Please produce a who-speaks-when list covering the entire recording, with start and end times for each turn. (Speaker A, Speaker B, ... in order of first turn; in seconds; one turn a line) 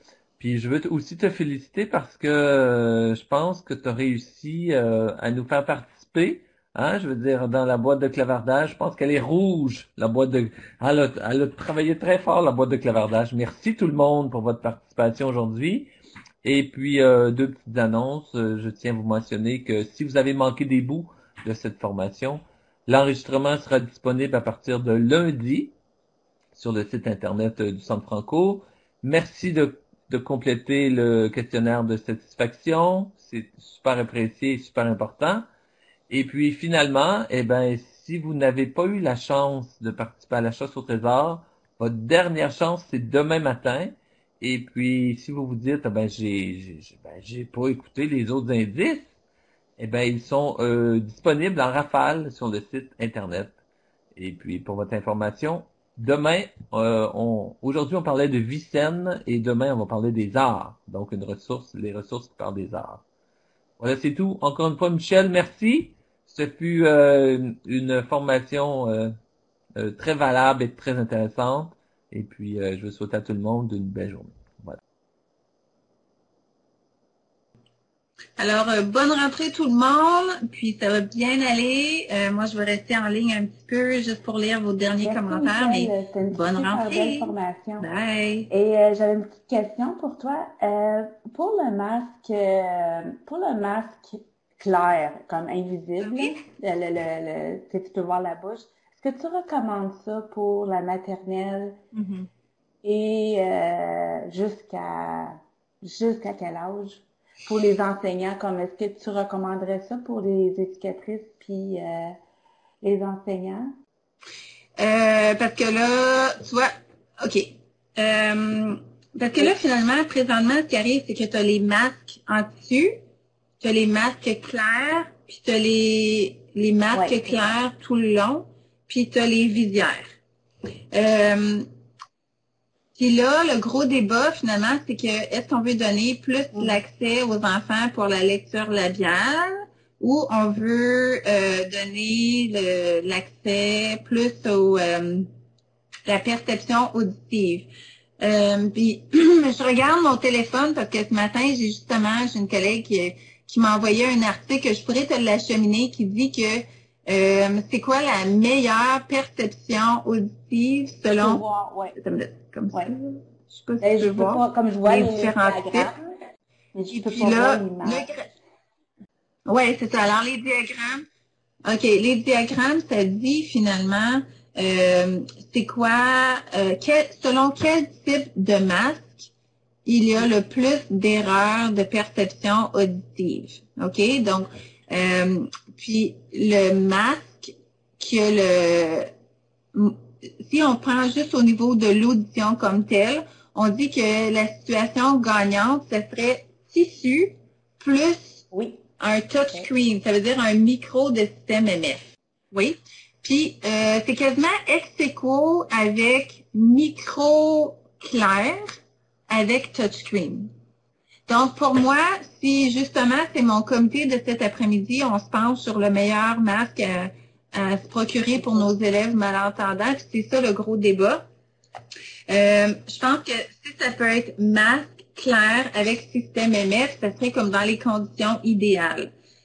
Speaker A: 0.4-15.9
Speaker A: 16.4-25.8
Speaker A: 26.5-35.5
Speaker A: 36.1-49.1
Speaker A: 49.8-53.5
Speaker A: 54.1-63.0
Speaker A: 63.8-69.1
Speaker A: 69.8-74.8
Speaker B: 78.4-88.5
Speaker C: 85.0-87.8
Speaker C: 88.5-101.8
Speaker C: 102.8-112.2
Speaker C: 112.8-113.7
Speaker B: 114.8-122.9
Speaker B: 123.6-130.1
Speaker C: 126.9-127.5
Speaker B: 130.9-131.7
Speaker B: 132.9-145.3
Speaker B: 146.1-161.4
Speaker C: 161.2-162.0
Speaker B: 161.9-165.9
Speaker C: 163.8-166.1
Speaker C: 166.7-168.1
Speaker B: 166.9-168.3
Speaker B: 169.4-171.1
Speaker B: 171.7-179.3
Speaker B: 179.8-189.1
Speaker B: 189.7-198.5
Speaker C: 198.5-198.8
Speaker B: 199.0-208.6
Speaker B: 209.3-210.5
Speaker B: 211.3-221.2
Speaker B: 222.3-229.1